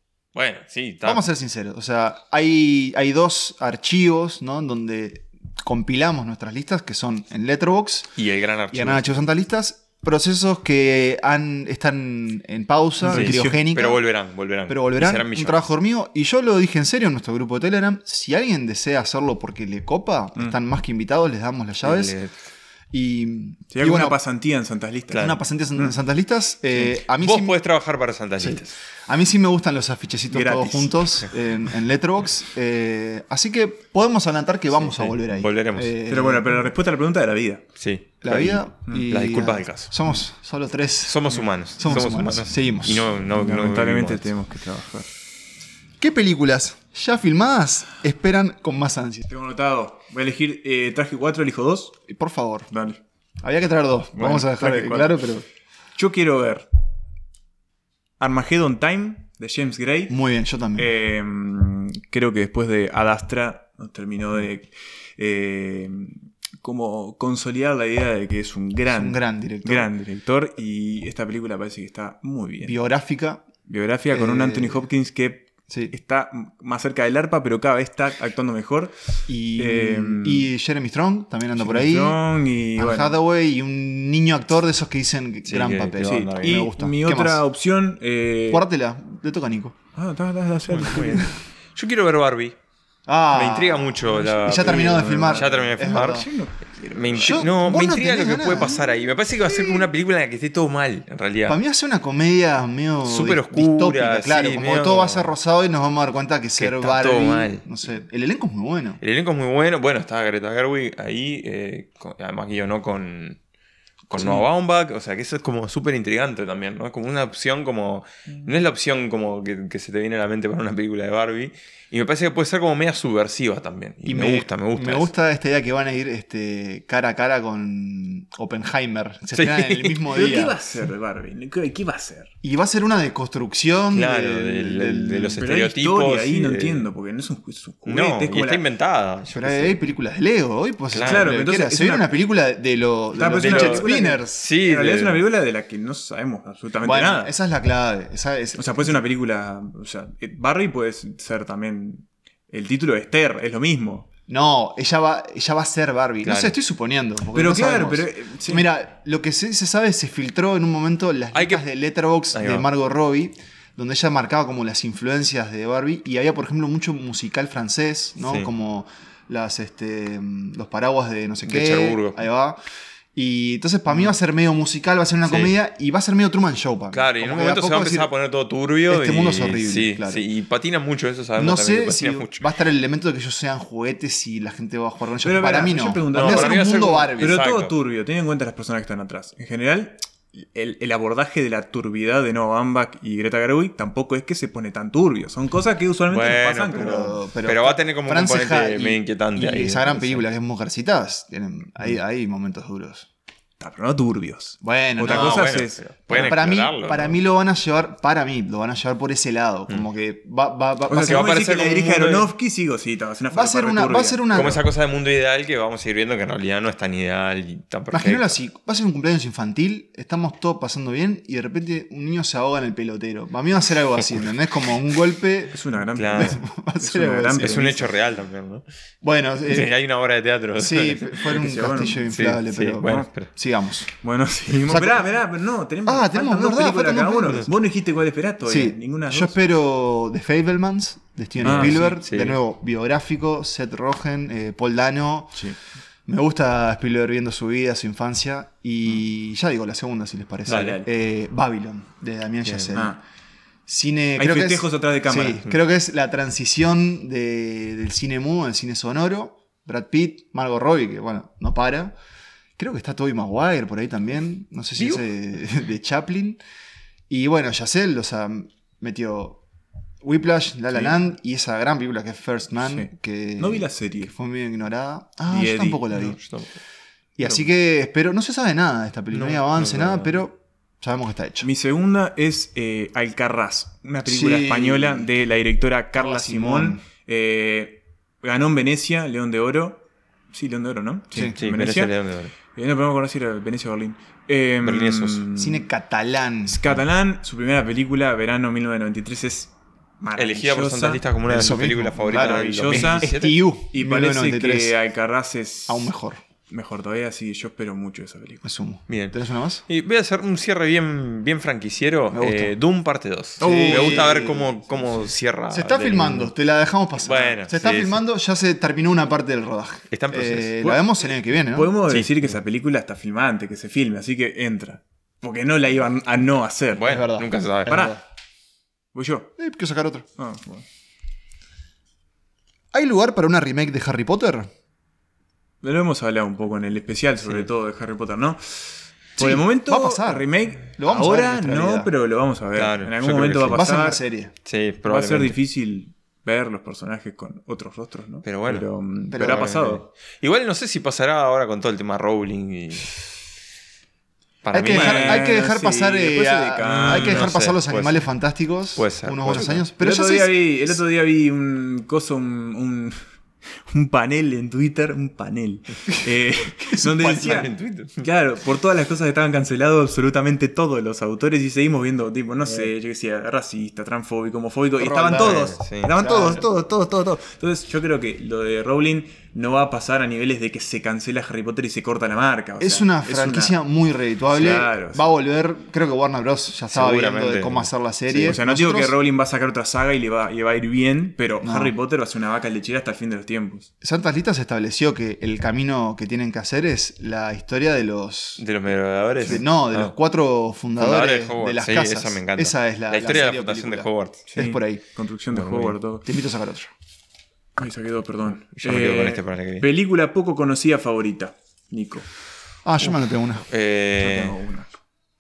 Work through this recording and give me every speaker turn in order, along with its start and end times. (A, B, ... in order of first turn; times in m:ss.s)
0:00.4-0:01.2 A
0:01.0-0:08.1 B
0:08.2-0:09.2 A
0:08.7-0:14.0 B
0:13.0-0:13.6 C
0:13.1-0:15.7 A
0:14.7-0:22.2 B
0:21.8-0:22.3 A
0:22.9-0:24.2 B
0:23.7-0:25.9 C
0:25.1-0:25.4 A
0:25.1-0:27.6 B
0:27.2-0:28.8 A
0:28.4-0:36.6 B
0:30.3-0:31.2 C
0:35.0-0:35.9 A
0:36.1-0:37.6 C
0:37.8-0:39.9 A
0:38.2-0:41.2 B
0:41.0-0:44.3 A
0:41.8-0:43.1 B
0:43.3-0:45.1 C
0:46.0-0:49.2 B
0:49.3-0:52.0 C
0:52.1-0:52.7 B
0:52.7-0:53.0 C
0:53.4-0:55.5 B
0:54.2-0:55.3 C
0:56.0-0:56.7 C
0:58.2-1:00.2 C
1:00.1-1:00.9 B
1:00.8-1:12.8 C
1:08.9-1:09.9 B
1:12.6-1:13.4 B
1:13.7-1:20.5 C
1:14.1-1:14.8 B
1:15.7-1:16.0 B
1:19.3-1:22.2 B
1:21.6-1:23.2 C
1:22.8-1:27.4 B
1:25.4-1:26.7 A
1:26.0-1:28.7 C
1:28.5-1:29.8 B
1:30.0-1:31.3 C
1:30.7-1:32.6 A
1:33.1-1:36.3 B
1:33.3-1:36.3 A
1:34.1-1:37.5 C
1:36.9-1:41.6 A
1:37.2-1:38.8 B
1:39.5-1:39.9 B
1:41.5-1:49.0 B
1:43.0-1:45.3 A
1:46.6-1:47.6 A
1:49.0-1:53.4 A
1:54.1-1:54.4 B
1:54.1-2:05.1 A
2:04.0-2:10.6 B
2:09.3-2:10.0 A
2:10.1-2:12.3 C
2:12.4-2:15.4 B
2:13.9-2:16.9 A
2:15.4-2:18.6 C
2:17.8-2:19.8 A
2:19.3-2:24.5 B
2:20.9-2:21.3 A
2:21.0-2:22.1 C
2:23.1-2:27.3 C
2:23.4-2:25.2 A
2:26.8-2:29.0 B
2:28.6-2:34.1 C
2:34.3-2:52.6 B
2:36.2-2:36.6 A
2:37.3-2:38.7 C
2:41.3-2:41.6 A
2:42.3-2:42.7 A
2:48.2-2:48.5 A
2:51.5-2:52.2 A
2:53.2-2:58.1 B
2:55.3-2:55.5 A
2:56.9-3:02.4 A
2:58.9-3:00.2 B
3:01.4-3:07.4 B
3:05.2-3:17.2 C
3:06.1-3:07.8 A
3:16.1-3:20.2 A
3:16.7-3:23.1 B
3:23.6-3:26.3 C
3:24.6-3:25.5 B
3:25.0-3:27.2 A
3:26.1-3:31.4 B
3:30.9-3:34.6 C
3:30.9-3:32.3 A
3:33.3-3:34.6 B
3:34.3-3:38.4 A
3:37.9-3:45.6 B
3:45.5-3:47.9 C
3:46.0-3:46.4 A
3:46.1-3:47.7 B
3:47.4-3:48.6 A
3:49.0-3:49.7 B
3:49.5-3:51.4 A
3:50.6-3:53.9 B
3:51.3-3:52.1 C
3:52.1-3:53.3 A
3:54.0-3:59.4 C
3:54.7-3:55.0 B
3:55.8-3:57.5 B
3:58.4-4:05.4 B
4:01.4-4:02.0 C
4:01.4-4:02.4 A
4:06.1-4:13.0 B
4:10.5-4:10.9 C
4:10.5-4:10.8 A
4:12.4-4:12.8 A
4:12.7-4:13.0 C
4:13.7-4:22.0 B
4:14.2-4:15.5 C
4:22.6-4:26.4 B
4:24.8-4:25.0 A
4:27.1-4:29.4 B
4:30.0-4:36.2 B
4:30.7-4:31.0 C
4:32.6-4:34.1 C
4:35.3-4:35.9 C
4:35.9-4:36.5 A
4:37.2-4:41.5 B
4:39.1-4:40.2 A
4:41.4-4:51.9 C
4:44.1-4:45.1 B
4:45.9-4:46.8 B
4:51.4-4:52.3 A
4:52.5-4:55.6 C
4:54.6-4:55.2 A
4:55.4-4:56.6 B
4:56.5-5:01.0 C
5:00.2-5:03.4 A
5:01.3-5:04.8 B
5:02.1-5:03.1 C
5:03.7-5:05.9 C
5:05.7-5:06.2 B
5:06.5-5:08.5 C
5:08.4-5:09.6 B
5:08.9-5:16.3 A
5:12.1-5:12.6 B
5:13.4-5:15.1 C
5:13.4-5:14.4 B
5:15.5-5:21.8 B
5:17.0-5:18.0 A
5:19.9-5:20.6 A
5:20.6-5:26.9 C
5:21.9-5:22.4 A
5:26.8-5:28.0 A
5:26.8-5:28.0 B
5:27.7-5:28.0 C
5:28.9-5:29.3 C
5:29.4-5:30.1 B
5:30.2-5:30.6 C
5:32.7-5:34.5 B
5:35.6-5:44.0 C
5:37.2-5:37.5 A
5:39.2-5:41.9 B
5:42.6-5:43.6 A
5:43.5-5:44.3 B
5:44.4-5:45.4 A
5:44.8-5:49.9 C
5:48.2-5:48.7 A
5:49.1-5:49.6 B
5:49.2-5:53.0 A
5:54.4-5:55.3 A
5:54.5-6:00.8 B
5:54.6-5:57.3 C
5:56.6-5:58.0 A
5:58.8-5:59.6 A
5:59.8-6:03.0 C
6:03.7-6:23.6 C
6:06.8-6:08.0 A
6:14.8-6:16.4 B
6:15.1-6:16.2 A
6:22.6-6:29.0 B
6:24.3-6:25.1 C
6:26.7-6:28.4 A
6:28.2-6:33.7 C
6:31.4-6:31.7 B
6:33.8-6:38.4 B
6:38.4-6:40.0 A
6:39.2-6:44.8 B
6:40.8-6:44.3 A
6:44.3-6:46.1 C
6:45.3-6:45.8 A
6:46.0-6:46.7 B
6:47.6-6:52.1 C
6:48.5-6:49.7 A
6:52.6-6:53.4 B
6:53.5-6:54.4 A
6:54.0-6:54.8 C